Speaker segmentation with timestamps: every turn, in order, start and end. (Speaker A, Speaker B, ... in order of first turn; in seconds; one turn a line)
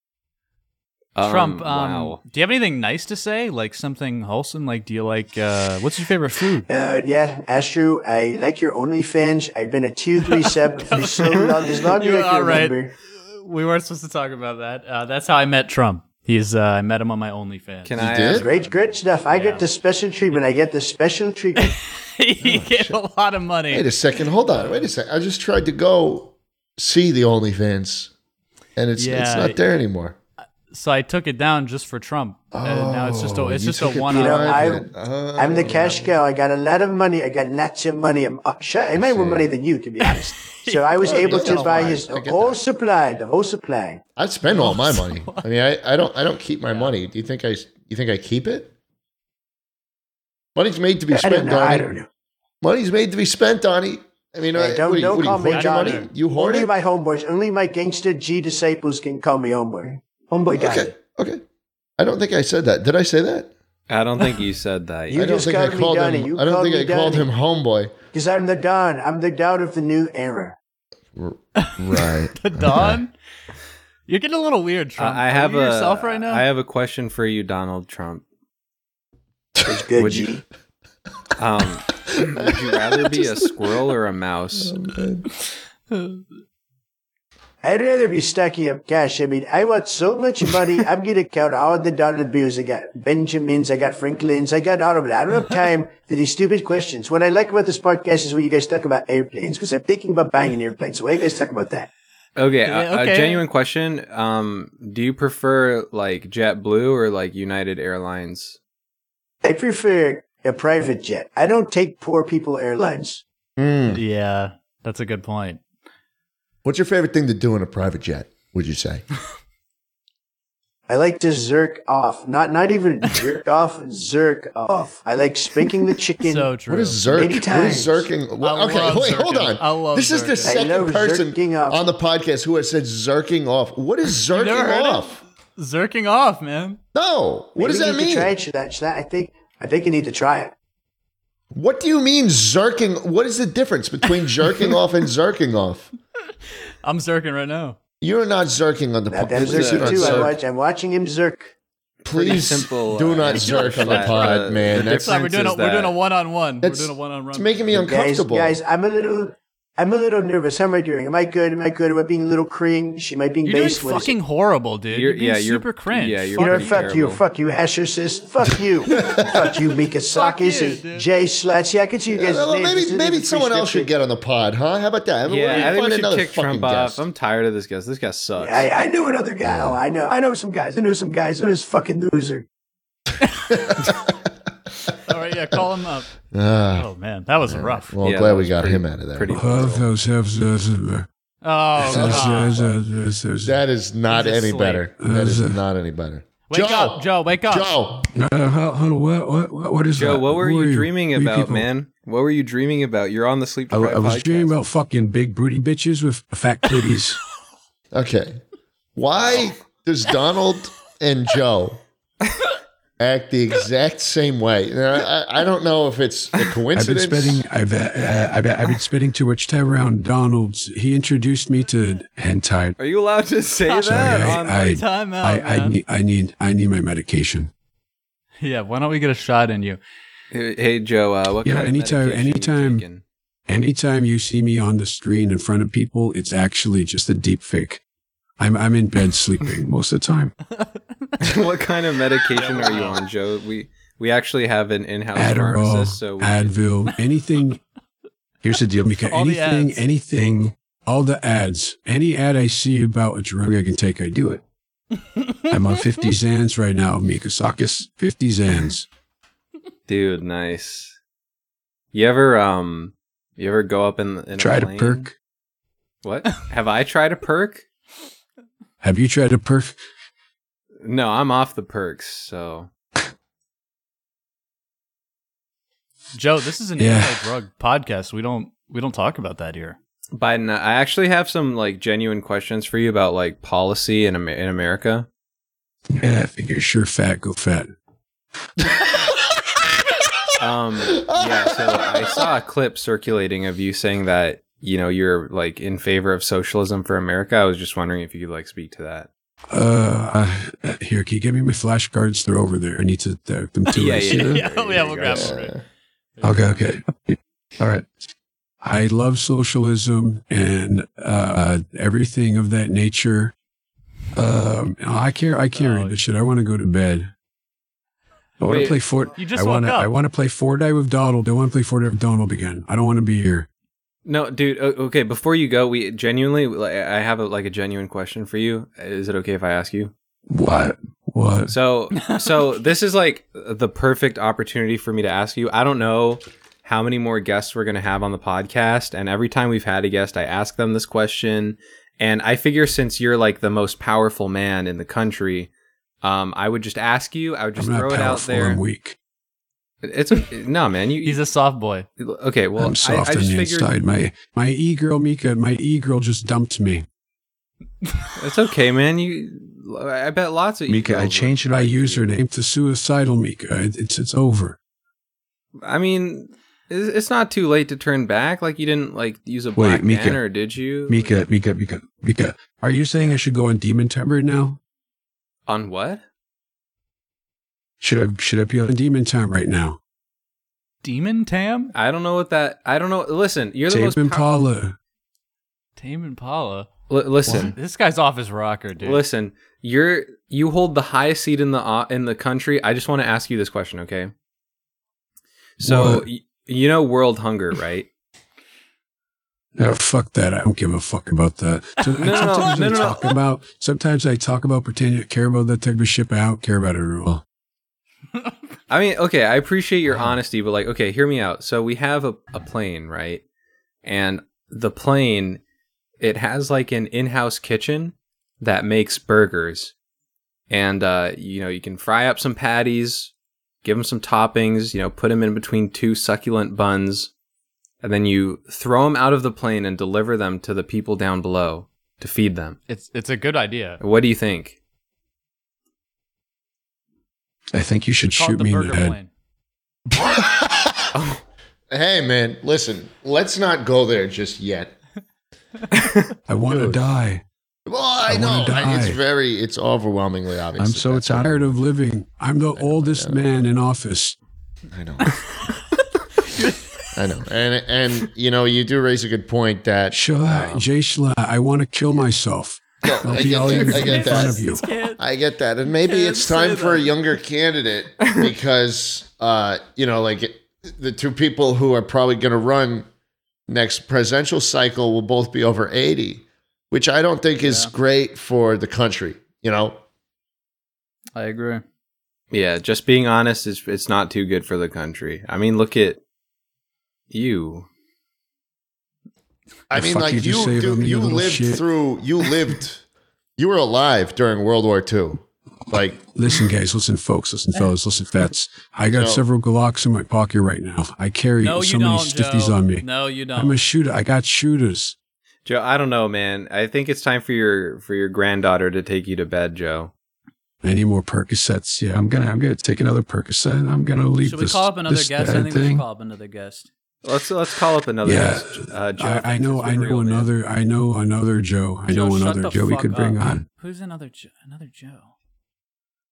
Speaker A: 1.1-2.2
Speaker B: 1.2-6.7
Speaker C: 6.7-12.9
Speaker B: 10.2-19.7
Speaker A: 17.8-18.5
Speaker D: 18.0-18.5
Speaker C: 18.3-21.7
Speaker B: 21.6-24.9
Speaker D: 22.4-23.0
Speaker D: 23.7-28.1
Speaker D: 28.8-30.2
Speaker B: 28.9-29.6
Speaker B: 30.7-34.8
Speaker D: 32.5-36.2
Speaker C: 34.1-44.0
Speaker D: 39.0-39.5
Speaker B: 40.0-42.0
Speaker D: 41.0-42.6
Speaker D: 44.2-48.7
Speaker B: 44.5-45.5
Speaker B: 46.7-46.9
Speaker D: 50.5-51.9
Speaker C: 51.1-52.1
Speaker D: 52.6-56.7
Speaker C: 54.5-60.9
Speaker B: 55.1-56.1
Speaker D: 60.6-61.4
Speaker D: 62.0-63.5
Speaker A: 63.9-65.2
Speaker C: 65.1-67.3
Speaker D: 65.1-67.9
Speaker C: 68.1-70.6
Speaker D: 71.2-73.0
Speaker B: 72.3-73.1
Speaker B: 74.1-76.4
Speaker A: 75.0-78.2
Speaker C: 79.6-80.4
Speaker A: 80.0-80.3
Speaker A: 81.4-84.7
Speaker D: 82.1-83.7
Speaker D: 84.5-85.3
Speaker B: 85.9-86.2
Speaker C: 87.6-101.9
Speaker A: 102.3-108.6
Speaker B: 102.6-103.4
Speaker C: 109.4-113.2
Speaker D: 113.6-114.0
Speaker B: 113.9-115.6
Speaker D: 116.6-119.0
Speaker C: 120.9-126.5
Speaker B: 126.2-127.5
Speaker D: 126.7-135.2
Speaker C: 127.1-128.1
Speaker B: 128.4-130.6
Speaker C: 130.4-131.8
Speaker B: 134.3-136.8
Speaker D: 136.9-138.3
Speaker C: 137.6-140.5
Speaker D: 141.5-145.9
Speaker B: 146.8-147.8
Speaker D: 148.0-150.3
Speaker C: 149.1-151.5
Speaker A: 149.4-150.3
Speaker A: 152.0-156.0
Speaker D: 152.1-155.1
Speaker B: 153.2-157.7
Speaker D: 156.6-158.6
Speaker C: 157.7-164.2
Speaker B: 163.4-167.0
Speaker A: 164.9-167.2
Speaker C: 166.4-173.9
Speaker D: 168.9-169.4
Speaker B: 170.1-171.1
Speaker D: 172.1-177.0
Speaker A: 175.3-178.7
Speaker C: 178.4-182.4
Speaker D: 179.4-179.8
Speaker D: 183.5-183.8
Speaker B: 185.1-186.1
Speaker D: 186.3-186.9
Speaker B: 186.7-188.0
Speaker D: 187.4-189.5
Speaker A: 188.0-189.8
Speaker E: 189.3-191.1
Speaker B: 191.4-192.7
Speaker E: 191.8-193.6
Speaker D: 191.8-192.7
Speaker D: 193.4-198.1
Speaker B: 194.1-194.9
Speaker E: 195.0-195.6
Speaker B: 196.5-197.7
Speaker E: 198.1-201.7
Speaker A: 200.0-204.5
Speaker E: 203.7-207.2
Speaker D: 207.9-208.4
Speaker D: 208.9-211.8
Speaker D: 213.0-217.4
Speaker E: 216.7-222.8
Speaker A: 222.8-224.8
Speaker B: 223.6-225.8
Speaker E: 223.8-227.5
Speaker B: 228.4-229.8
Speaker A: 230.3-233.0
Speaker E: 231.4-232.8
Speaker E: 233.5-237.8
Speaker E: 238.4-240.3
Speaker A: 241.2-246.5
Speaker B: 242.3-243.0
Speaker E: 245.1-247.6
Speaker E: 248.4-254.4
Speaker B: 249.0-249.8
Speaker E: 255.5-258.9
Speaker A: 259.9-260.9
Speaker A: 261.9-265.1
Speaker E: 264.4-265.1
Speaker A: 266.0-267.6
Speaker E: 268.8-269.8
Speaker A: 270.8-272.7
Speaker B: 276.1-279.8
Speaker E: 276.8-277.3
Speaker A: 280.1-285.1
Speaker E: 286.0-287.7
Speaker A: 290.4-299.1
Speaker D: 290.9-292.2
Speaker E: 299.5-304.4
Speaker A: 303.7-304.5
Speaker B: 304.1-305.5
Speaker D: 304.5-305.6
Speaker B: 306.2-306.7
Speaker E: 306.2-307.9
Speaker E: 308.6-313.3
Speaker E: 314.1-317.1
Speaker B: 315.5-316.0
Speaker E: 318.4-323.5
Speaker A: 318.4-318.8
Speaker B: 318.4-319.9
Speaker A: 324.1-329.9
Speaker E: 330.3-331.5
Speaker A: 331.5-345.5
Speaker B: 331.9-332.3
Speaker A: 346.0-348.6
Speaker E: 347.6-348.9
Speaker A: 349.8-351.2
Speaker B: 351.0-351.9
Speaker A: 352.0-353.7
Speaker E: 352.6-356.9
Speaker A: 358.1-362.0
Speaker E: 360.7-364.6
Speaker A: 365.6-371.2
Speaker E: 369.6-370.2
Speaker E: 370.9-374.6
Speaker A: 375.5-376.0
Speaker E: 377.8-379.8
Speaker B: 380.8-381.7
Speaker A: 381.7-384.3
Speaker E: 383.7-384.8
Speaker B: 385.8-386.7
Speaker A: 386.9-387.6
Speaker B: 387.3-389.0
Speaker A: 388.8-394.1
Speaker A: 395.6-397.9
Speaker E: 395.6-396.1
Speaker E: 399.6-407.2
Speaker A: 402.0-403.1
Speaker B: 402.1-402.7
Speaker A: 408.7-413.2
Speaker A: 413.8-415.4
Speaker A: 416.0-419.7
Speaker A: 420.5-423.1
Speaker A: 423.6-427.1
Speaker A: 427.8-432.6
Speaker B: 432.7-433.8
Speaker A: 433.8-434.6
Speaker E: 437.5-439.0
Speaker B: 438.0-439.1
Speaker D: 440.0-440.6
Speaker A: 440.9-441.2
Speaker D: 441.7-444.7
Speaker E: 446.3-447.2
Speaker D: 446.5-446.8
Speaker D: 447.6-451.6
Speaker E: 448.1-449.0
Speaker E: 450.6-454.2
Speaker D: 452.5-453.3
Speaker D: 454.7-455.1
Speaker D: 456.9-460.7
Speaker E: 459.9-464.6
Speaker D: 462.8-464.4
Speaker B: 463.1-465.0
Speaker D: 465.0-472.9
Speaker B: 465.7-466.9
Speaker D: 473.5-479.8
Speaker B: 477.4-477.7
Speaker B: 481.1-481.6
Speaker A: 482.3-486.0
Speaker A: 487.1-487.7
Speaker D: 489.7-492.8
Speaker E: 489.7-491.6
Speaker D: 493.4-496.1
Speaker E: 496.1-504.9
Speaker D: 498.9-499.2
Speaker B: 501.4-503.6
Speaker A: 505.4-509.9
Speaker E: 510.6-515.9
Speaker B: 514.2-516.7
Speaker A: 517.0-520.3
Speaker E: 518.0-523.5
Speaker B: 521.9-525.1